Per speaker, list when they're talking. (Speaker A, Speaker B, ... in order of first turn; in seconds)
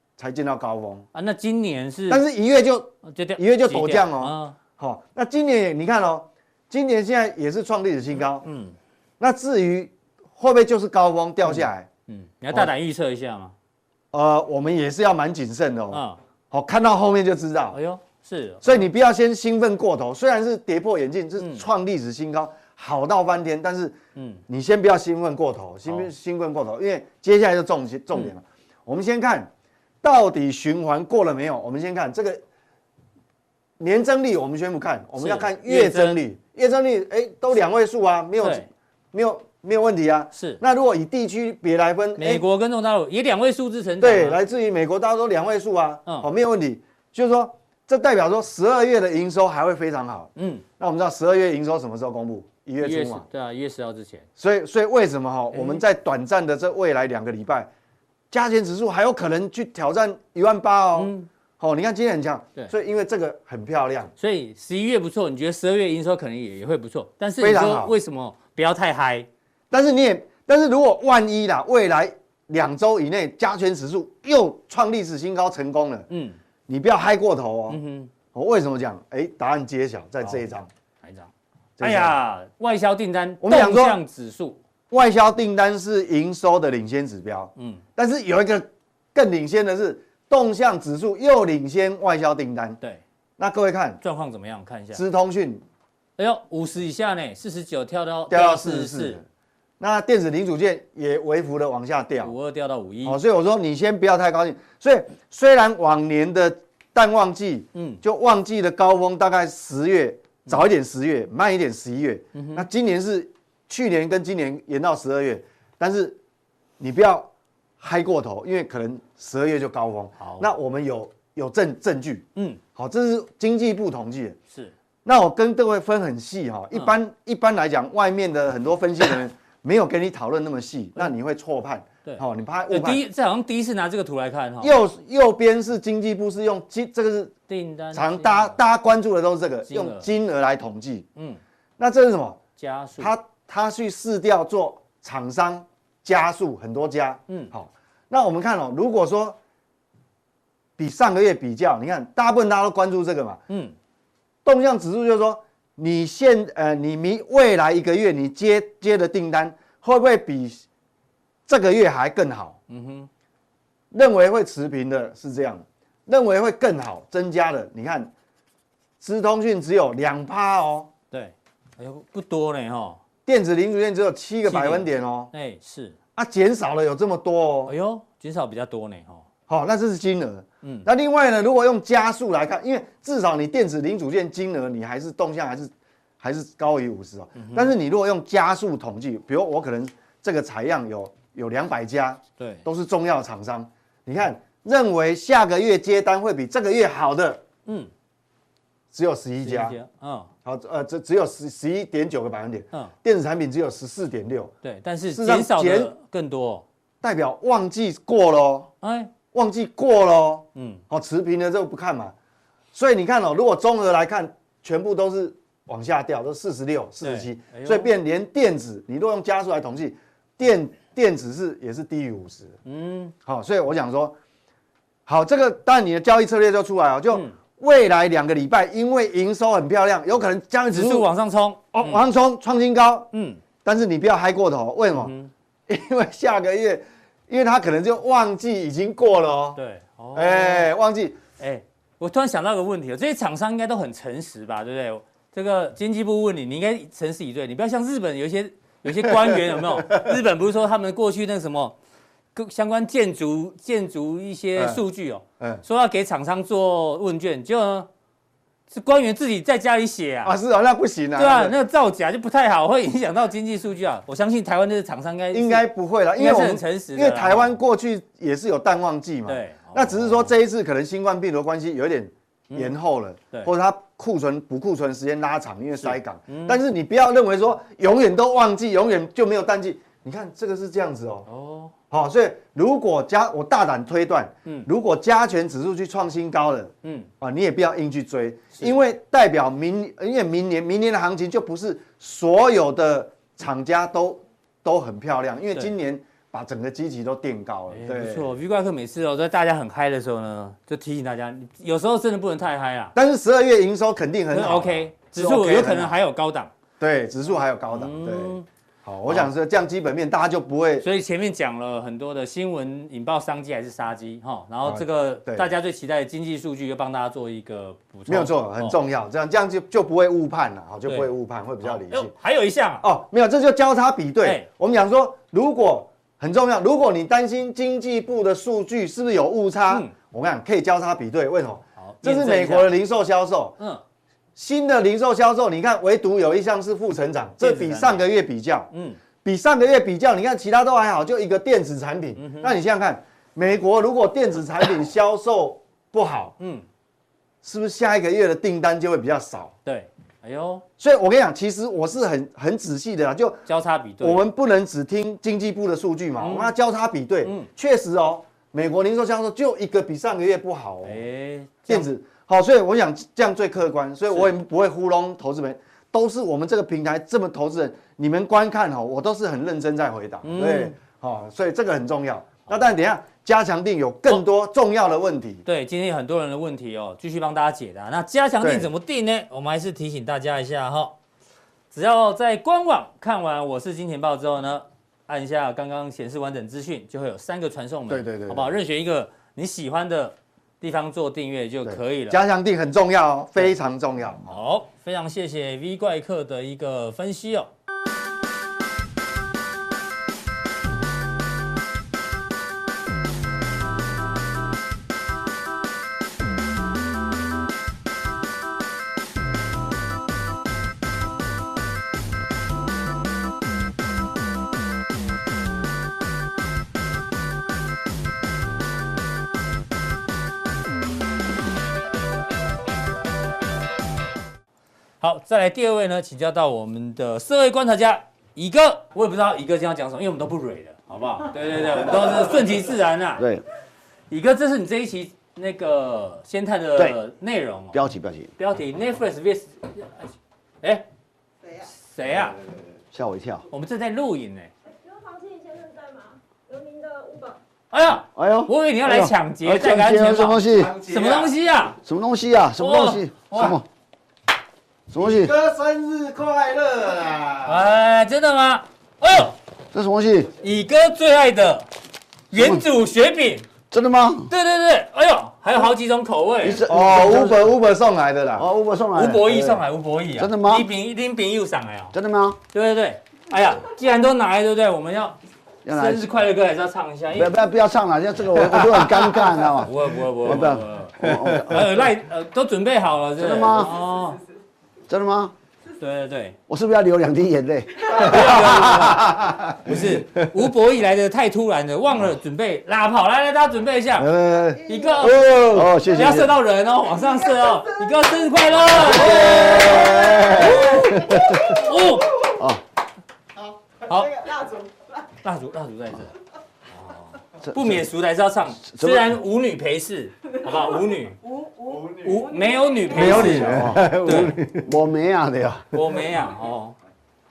Speaker A: 0.2-1.1, 2.1-8.4, 9.2-11.9, 14.1-17.8, 18.6-29.5, 30.0-32.4, 33.8-42.4, 44.0-53.2, 54.4-57.7, 58.3-64.1, 67.4-68.0, 69.7-76.1, 76.7-77.8, 78.3-80.7, 81.8-82.2, 83.4-84.0, 84.9-92.8, 93.4-94.0, 94.9-95.6, 98.3-99.2, 99.8-102.3, 103.0-116.2, 116.8-124.4, 125.0-133.0, 134.6-137.3, 137.9-141.1, 141.8-142.4, 143.0-149.4, 150.8-153.4, 154.4-160.6, 161.5-162.6, 163.9-168.1, 169.0-170.9, 173.2-175.3, 176.2-177.7, 179.5-197.4, 198.9-199.8, 200.4-204.5, 205.1-205.9, 207.0-208.7, 209.3-212.1, 212.7-222.6, 223.2-224.2, 225.1-231.1, 231.7-233.1, 233.6-235.1, 235.7-239.6, 240.1-241.2, 248.9-250.1, 254.6-254.8, 255.4-255.6, 260.2-261.5, 265.3-281.3, 281.9-298.3, 302.9-305.9, 306.8-310.9, 314.6-315.5, 318.1-322.1, 322.8-333.6, 334.4-338.7, 339.2-346.3, 347.4-349.5, 350.8-353.4, 354.0-361.0, 361.7-375.4, 378.4-378.7, 387.9-388.5, 391.7-394.4, 450.6-451.3, 455.0-457.6, 466.7-468.5, 481.0-481.4, 489.1-489.5, 494.0-495.6, 499.2-501.4, 512.9-514.7
Speaker B: 1.1-2.2, 3.0-4.6, 8.4-8.7, 11.4-13.5, 15.9-16.2, 17.7-18.9, 21.4-21.6, 24.1-24.4, 35.2-36.2, 38.4-38.7, 40.3-40.6, 42.2-44.4, 50.4-50.6, 52.8-54.2, 55.5-55.8, 61.0-61.3, 64.2-69.3, 76.1-76.4, 77.7-78.1, 81.0-84.6, 87.5-87.8, 94.0-95.0, 96.2-99.2, 102.2-103.2, 107.7-108.0, 112.3-112.7, 120.2-120.5, 132.0-134.8, 137.5-138.6, 139.7-140.1, 142.6-143.1, 153.5-153.7, 162.7-163.1, 171.1-173.0, 174.4-175.9, 177.7-179.2, 187.3-187.7, 192.4-192.6, 199.4-200.3, 204.6-206.6, 208.8-209.1, 210.5-210.8, 217.0-217.9, 222.6-223.1, 230.7-232.0, 233.1-233.4, 234.9-235.3, 239.6-240.7, 241.4-251.8, 252.3-257.9, 258.7-260.3, 261.1-265.6, 266.1-267.6, 269.3-270.3, 272.5-272.7, 275.8-276.6, 281.3-281.7, 286.8-287.1, 297.7-302.9, 304.3-306.5, 307.7-308.4, 310.8-318.8, 321.6-322.9, 324.2-324.5, 331.8-332.8, 337.4-338.1, 338.7-339.0, 342.2-342.6, 346.4-346.6, 349.6-350.6, 353.4-354.2, 356.2-356.5, 360.8-361.9, 370.2-370.8, 375.4-380.9, 381.7-392.2, 394.3-397.5, 425.0-433.2, 434.1-437.8, 438.4-440.1, 441.6-442.4, 443.5-444.5, 447.7-451.8, 452.6-453.6, 457.4-459.4, 460.4-461.7, 462.3-463.4, 464.3-466.6, 468.9-471.9, 472.5-477.3, 479.1-484.2, 485.8-486.4, 487.9-502.2, 503.8-504.3, 505.2-506.1, 506.8-511.2, 511.9-514.4, 515.7-516.8
Speaker C: 433.2-433.4, 437.7-438.3, 442.9-443.5, 448.1-450.8, 451.8-453.6, 454.9-455.3, 459.7-460.3, 462.3-462.6, 463.7-464.3, 466.4-467.5, 468.4-469.6, 470.2-470.7, 471.9-472.4, 475.6-476.1, 477.1-481.8, 483.2-483.8, 484.9-485.3, 486.5-489.4, 495.0-496.3, 498.7-501.6, 502.2-502.6, 507.4-507.8, 508.6-509.1, 512.9-515.6
Speaker D: 444.8-447.4